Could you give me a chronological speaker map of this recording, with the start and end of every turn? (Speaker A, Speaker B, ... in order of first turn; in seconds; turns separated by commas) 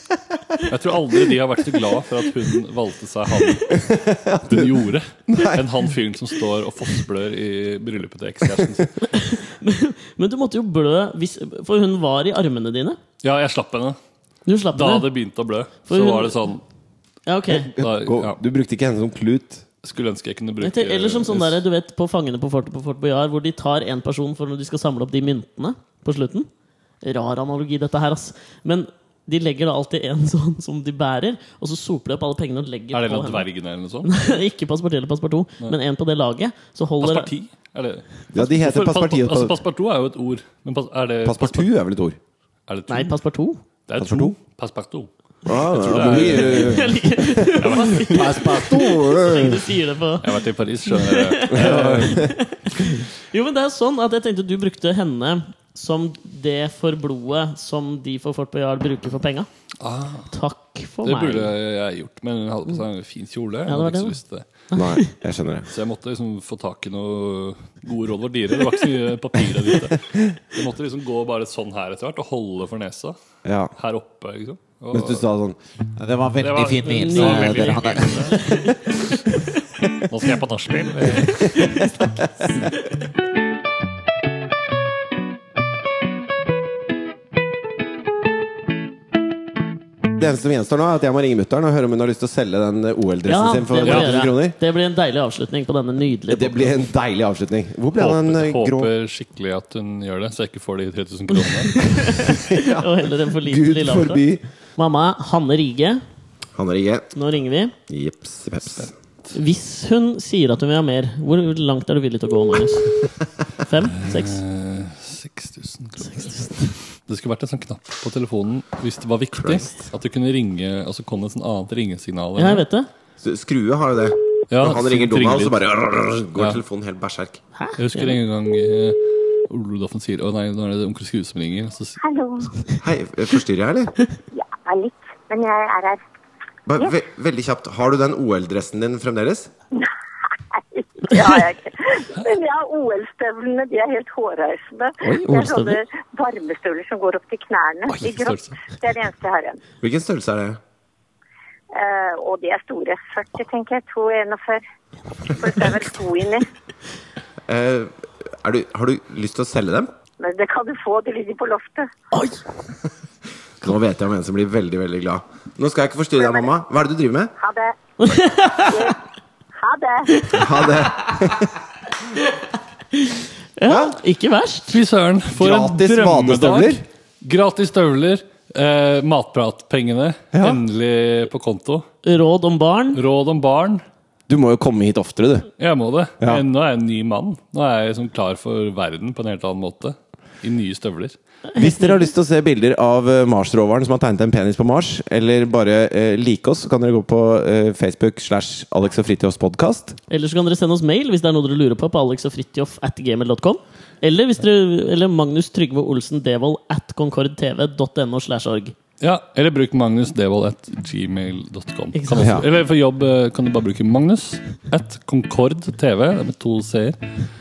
Speaker A: 0.6-9.1, Speaker B: 3.9-4.7, Speaker B: 5.3-5.6, Speaker C: 9.0-13.0, Speaker A: 13.2-14.0, Speaker C: 14.5-15.1, Speaker A: 14.7-16.6, Speaker C: 15.9-16.4, Speaker C: 17.2-17.7, Speaker B: 17.6-19.6, Speaker A: 17.7-18.4, Speaker A: 19.8-21.6, Speaker C: 20.6-26.5, Speaker C: 27.0-33.5, Speaker A: 32.9-34.3, Speaker C: 34.0-37.3, Speaker A: 37.0-41.7, Speaker B: 38.3-39.6, Speaker B: 41.2-42.2, Speaker A: 42.7-43.1, Speaker C: 42.9-43.6, Speaker A: 43.9-48.7, Speaker B: 44.0-44.3, Speaker B: 45.5-49.6, Speaker C: 46.3-59.5, Speaker A: 50.2-52.3, Speaker B: 51.5-52.3, Speaker A: 59.8-60.3, Speaker C: 60.3-61.5, Speaker A: 61.0-64.5, Speaker C: 63.7-64.2, Speaker C: 64.7-65.1, Speaker B: 64.7-65.7, Speaker A: 65.7-73.2, Speaker B: 73.4-73.7, Speaker A: 73.8-75.3, Speaker B: 74.9-75.6, Speaker D: 76.0-78.3, Speaker A: 76.4-79.2, Speaker C: 76.9-79.6, Speaker A: 79.9-81.7, Speaker C: 81.3-81.9, Speaker B: 90.2-94.5, Speaker C: 93.2-96.9, Speaker A: 93.8-94.1, Speaker B: 96.3-98.9, Speaker A: 98.0-102.0, Speaker C: 101.3-104.2, Speaker B: 102.3-104.4, Speaker C: 104.8-106.0, Speaker B: 106.5-107.1, Speaker C: 107.1-107.7, Speaker B: 107.9-108.9, Speaker C: 109.3-113.0, Speaker C: 113.6-114.4, Speaker A: 114.0-116.4, Speaker C: 116.0-116.7, Speaker A: 117.1-122.6, Speaker B: 119.4-119.7, Speaker C: 122.4-122.9, Speaker B: 123.2-127.4, Speaker A: 124.5-125.7, Speaker A: 126.3-126.6, Speaker C: 127.5-128.2, Speaker A: 127.8-132.0, Speaker E: 132.0-132.7, Speaker B: 132.8-133.9, Speaker E: 134.3-136.0, Speaker B: 136.7-139.5, Speaker E: 140.5-149.6, Speaker C: 145.0-145.8, Speaker A: 147.9-148.6, Speaker B: 149.8-150.6, Speaker E: 151.7-154.6, Speaker E: 155.2-156.4, Speaker B: 157.5-159.9, Speaker E: 160.2-161.9, Speaker C: 162.1-162.4, Speaker B: 163.6-167.3, Speaker E: 166.2-166.5, Speaker E: 167.4-167.8, Speaker C: 168.0-168.9, Speaker E: 168.6-169.0, Speaker E: 169.6-170.2, Speaker C: 170.2-170.8, Speaker B: 170.3-171.5, Speaker C: 172.1-174.8, Speaker B: 173.7-173.9, Speaker A: 174.7-181.9, Speaker B: 175.3-176.8, Speaker B: 180.3-180.6, Speaker C: 182.0-183.0, Speaker A: 182.9-183.8, Speaker B: 184.3-185.5, Speaker A: 185.6-191.2, Speaker B: 191.5-200.0, Speaker C: 191.6-191.8, Speaker C: 200.1-208.7, Speaker A: 209.0-217.0, Speaker C: 211.9-212.4, Speaker B: 212.2-212.4